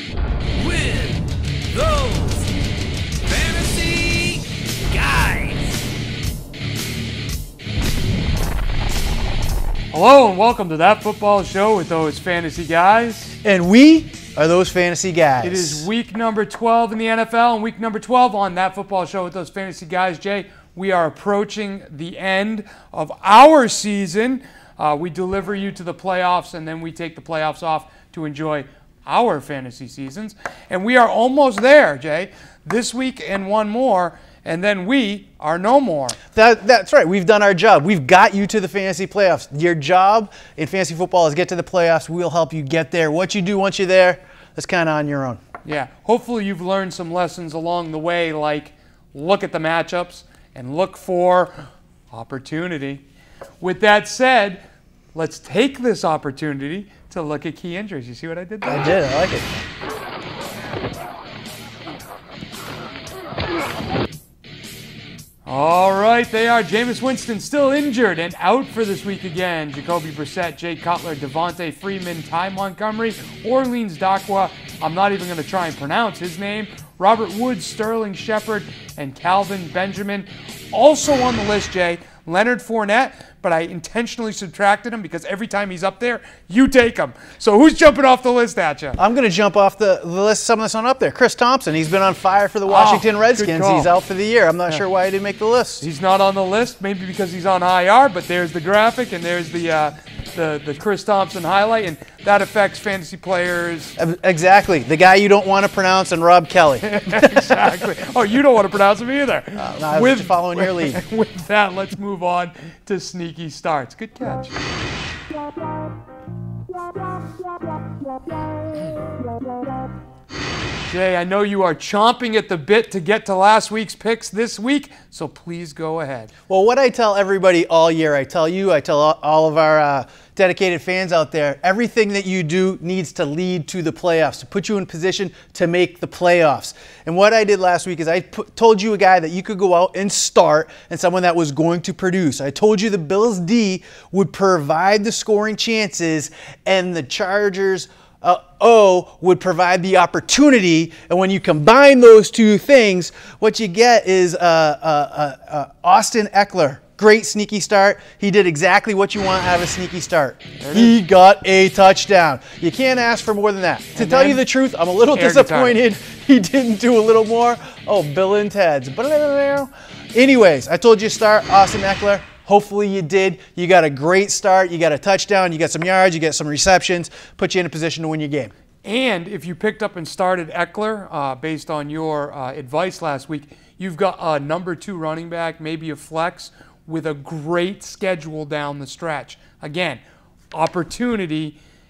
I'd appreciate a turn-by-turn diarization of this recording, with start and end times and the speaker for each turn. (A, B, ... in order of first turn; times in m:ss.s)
0:00.6-0:02.5 A
0:03.2-0:05.8 A
0:09.9-0:13.4 B
0:13.4-0:15.9 C
0:15.4-0:36.2 B
0:36.4-0:45.4 C
0:45.6-0:53.0 B
0:53.6-0:54.6 B
0:55.1-0:58.9 B
0:58.6-0:59.7 C
1:05.5-1:29.0 B
1:29.0-1:35.8 C
1:32.7-1:33.9 B
1:35.8-1:44.0 B
1:44.0-1:47.6 C
1:46.8-1:54.6 B
1:49.6-1:51.0 C
2:00.9-2:06.3 B
2:06.5-2:58.5 C
2:40.6-2:41.0 B
2:44.0-2:44.4 B
2:45.1-2:45.8 B
2:58.8-3:10.0 B
3:10.5-3:11.6 B